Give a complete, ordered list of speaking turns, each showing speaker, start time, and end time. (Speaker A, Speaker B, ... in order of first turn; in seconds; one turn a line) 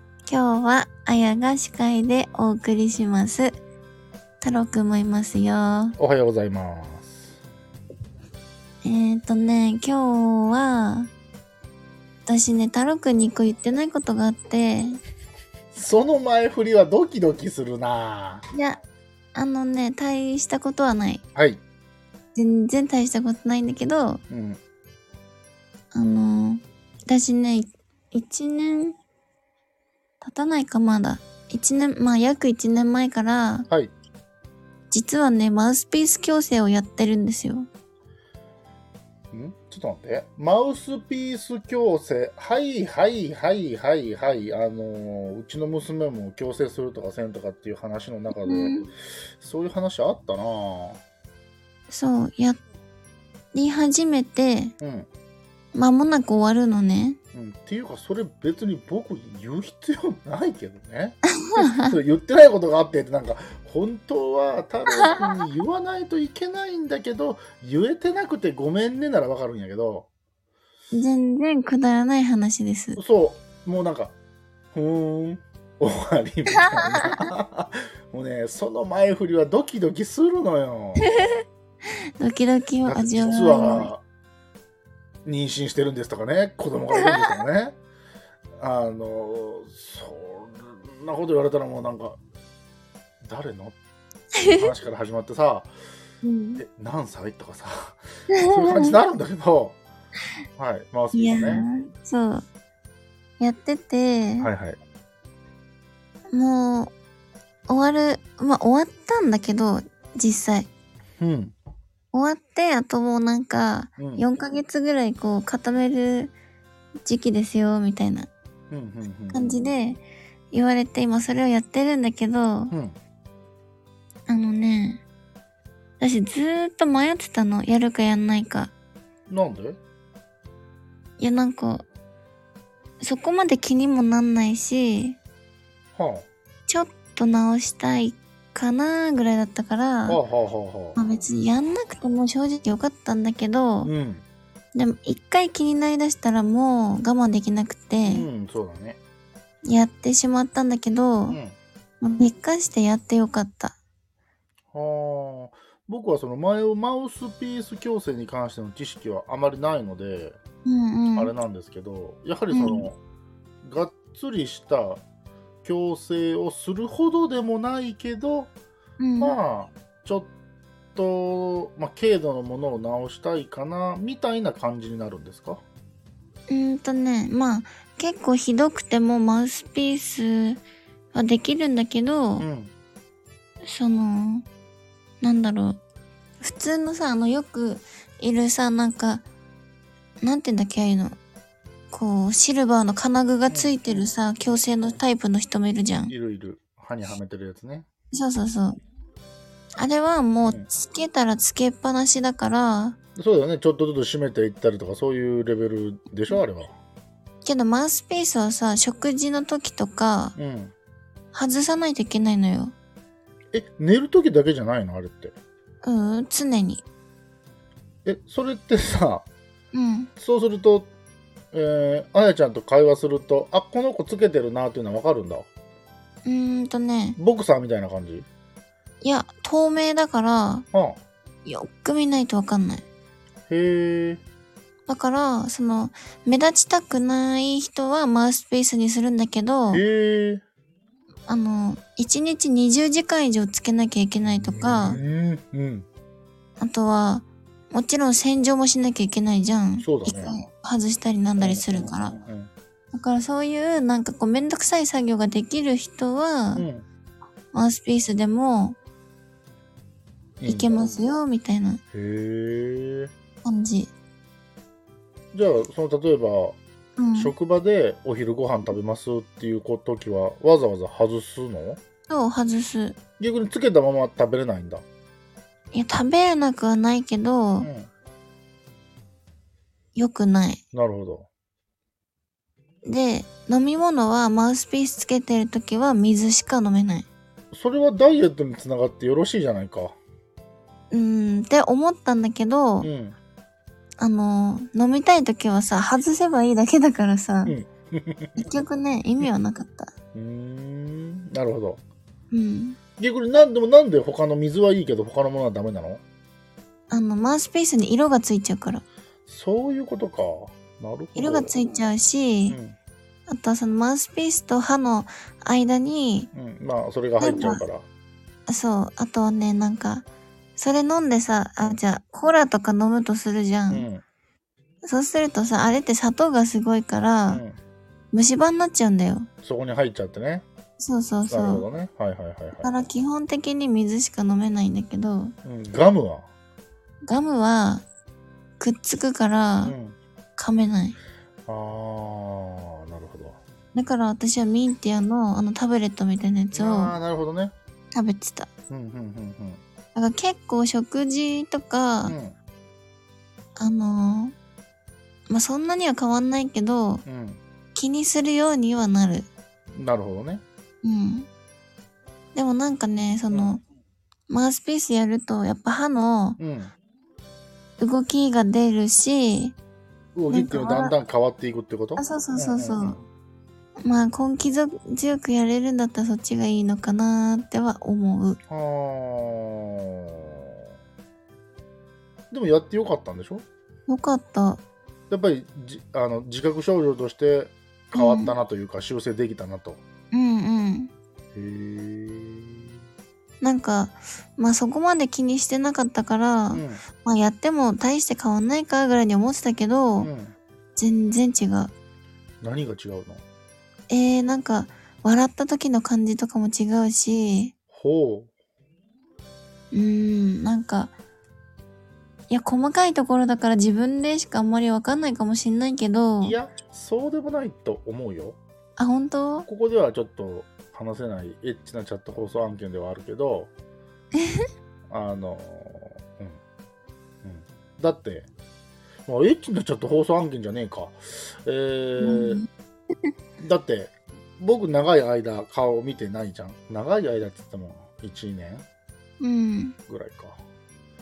Speaker A: 0.3-3.6
Speaker A: 4.4-6.0
Speaker B: 6.0-7.4
Speaker A: 8.8-11.1
Speaker A: 12.2-15.0
Speaker B: 15.7-18.4
Speaker A: 18.5-18.8
Speaker A: 19.3-21.2
Speaker B: 21.3-21.6
Speaker A: 22.3-24.2
Speaker B: 24.3-24.6
Speaker A: 25.9-29.0
Speaker A: 30.2-33.7
Speaker A: 34.9-37.7
Speaker B: 39.3-48.9
Speaker A: 48.3-48.9
Speaker B: 49.4-51.0
Speaker A: 51.9-52.6
Speaker A: 53.5-54.7
Speaker B: 54.8-55.1
Speaker A: 55.7-57.2
Speaker B: 57.3-70.1
Speaker A: 61.5-61.9
Speaker A: 70.9-73.0
Speaker B: 73.0-74.1
Speaker B: 74.7-81.1
Speaker A: 76.6-77.2
Speaker A: 82.2-83.9
Speaker B: 82.8-84.0
Speaker B: 85.2-87.8
Speaker B: 88.6-92.2
Speaker B: 93.2-93.8
Speaker A: 94.4-94.7
Speaker B: 94.5-95.7
Speaker A: 96.2-96.6
Speaker B: 96.6-99.8
Speaker A: 98.3-99.0
Speaker B: 100.6-101.7
Speaker A: 101.1-102.4
Speaker A: 103.4-104.5
Speaker B: 104.4-104.8
Speaker A: 106.3-106.9
Speaker A: 107.7-110.7
Speaker B: 111.2-111.5
Speaker A: 112.1-116.3
Speaker B: 114.0-114.2
Speaker A: 117.0-118.3
Speaker B: 118.7-119.4
Speaker A: 119.3-122.7
Speaker B: 122.7-123.0
Speaker A: 124.3-125.0
Speaker A: 126.0-128.7
Speaker B: 129.3-129.8
Speaker A: 131.2-131.8
Speaker A: 133.0-135.2
Speaker B: 135.9-136.3
Speaker A: 136.7-140.2
Speaker B: 140.1-141.0
Speaker A: 140.9-143.9
Speaker B: 143.8-144.2
Speaker A: 144.7-148.3
Speaker B: 148.0-149.0
Speaker A: 149.6-151.4
Speaker B: 151.3-151.6
Speaker A: 152.0-153.8
Speaker B: 154.7-160.4
Speaker A: 160.6-161.3
Speaker B: 161.1-163.0
Speaker A: 162.5-162.8
Speaker B: 163.6-165.0
Speaker B: 165.6-168.5
Speaker A: 169.0-169.3
Speaker B: 169.2-170.3
Speaker B: 170.9-175.6
Speaker A: 176.5-180.6
Speaker A: 181.1-182.4
Speaker B: 182.4-182.7
Speaker A: 183.7-184.4
Speaker A: 185.2-185.8
Speaker A: 186.4-189.2
Speaker A: 190.2-191.2
Speaker A: 191.9-196.1
Speaker B: 193.5-194.0
Speaker B: 196.1-197.9
Speaker A: 198.1-198.8
Speaker A: 199.8-203.0
Speaker B: 200.4-200.7
Speaker B: 203.2-206.8
Speaker A: 207.4-210.3
Speaker B: 210.3-210.7
Speaker A: 211.3-212.7
Speaker B: 213.5-215.3
Speaker A: 215.8-216.8
Speaker B: 218.0-219.3
Speaker A: 219.7-220.1
Speaker B: 220.2-220.9
Speaker B: 221.5-225.5
Speaker A: 226.2-227.2
Speaker B: 227.2-228.3
Speaker A: 229.0-230.7
Speaker B: 230.7-231.0
Speaker A: 231.4-232.8
Speaker B: 233.5-234.2
Speaker A: 234.9-239.8
Speaker B: 239.7-240.4
Speaker A: 241.3-245.0
Speaker B: 244.3-245.9
Speaker A: 246.6-252.2
Speaker B: 249.8-250.4
Speaker B: 251.4-252.5
Speaker A: 252.9-256.6
Speaker B: 256.6-256.9
Speaker A: 257.5-258.8
Speaker B: 260.4-260.8
Speaker A: 260.4-261.8
Speaker B: 261.9-263.1
Speaker A: 263.4-263.9
Speaker B: 265.3-266.6
Speaker A: 267.0-267.3
Speaker B: 267.1-271.8
Speaker A: 272.1-273.0
Speaker B: 273.2-274.8
Speaker A: 275.7-277.7
Speaker B: 277.6-277.9
Speaker A: 279.9-280.6
Speaker B: 280.7-281.3
Speaker A: 282.8-287.1
Speaker B: 287.5-290.0
Speaker A: 290.9-292.9
Speaker B: 292.8-293.1
Speaker A: 294.0-297.6
Speaker B: 297.4-298.5
Speaker A: 298.4-299.9
Speaker B: 300.1-301.8
Speaker A: 302.3-302.8
Speaker B: 303.0-306.0
Speaker A: 306.9-308.8
Speaker B: 309.3-311.6
Speaker A: 311.1-312.6
Speaker B: 312.5-312.8
Speaker A: 313.3-316.3
Speaker B: 316.3-317.9
Speaker A: 317.2-317.6
Speaker A: 318.5-323.9
Speaker B: 323.7-324.0
Speaker A: 324.8-327.4
Speaker B: 327.3-327.6
Speaker A: 328.1-329.3
Speaker B: 329.4-330.4
Speaker A: 330.8-331.7
Speaker B: 331.3-332.7
Speaker A: 332.6-335.3
Speaker B: 335.4-336.3
Speaker A: 337.1-337.8
Speaker A: 338.6-339.8
Speaker B: 339.6-340.0
Speaker A: 340.4-341.0
Speaker B: 341.5-343.4
Speaker A: 343.8-346.9
Speaker B: 346.5-347.5
Speaker A: 347.9-348.5
Speaker B: 348.7-349.6
Speaker A: 349.9-352.1
Speaker B: 352.1-352.4
Speaker A: 353.6-354.3
Speaker A: 355.3-357.0
Speaker B: 357.1-357.4
Speaker A: 357.8-359.3
Speaker B: 359.7-360.4
Speaker A: 360.8-361.3
Speaker A: 362.3-363.6
Speaker B: 363.3-363.6
Speaker A: 364.3-366.4
Speaker B: 366.4-366.7
Speaker A: 367.8-369.6
Speaker B: 370.1-373.1
Speaker A: 370.3-370.9
Speaker A: 371.9-373.0
Speaker A: 373.8-378.4
Speaker B: 378.5-380.5
Speaker B: 382.3-383.4
Speaker A: 383.9-384.6
Speaker B: 385.1-389.8
Speaker A: 387.9-388.3
Speaker A: 390.1-390.9
Speaker B: 391.3-392.8
Speaker A: 393.4-400.1
Speaker B: 396.5-396.8
Speaker B: 400.0-400.3
Speaker A: 400.8-401.7
Speaker B: 402.4-403.2
Speaker A: 403.9-407.5
Speaker B: 407.7-408.3
Speaker A: 409.7-410.9
Speaker A: 412.3-416.4
Speaker B: 416.2-418.4
Speaker A: 418.8-419.5
Speaker B: 419.5-423.5
Speaker A: 424.1-424.4
Speaker B: 424.9-426.4
Speaker B: 427.2-428.3
Speaker B: 429.1-432.4
Speaker A: 432.0-432.5
Speaker B: 433.4-438.7
Speaker A: 439.2-439.8
Speaker B: 439.9-440.4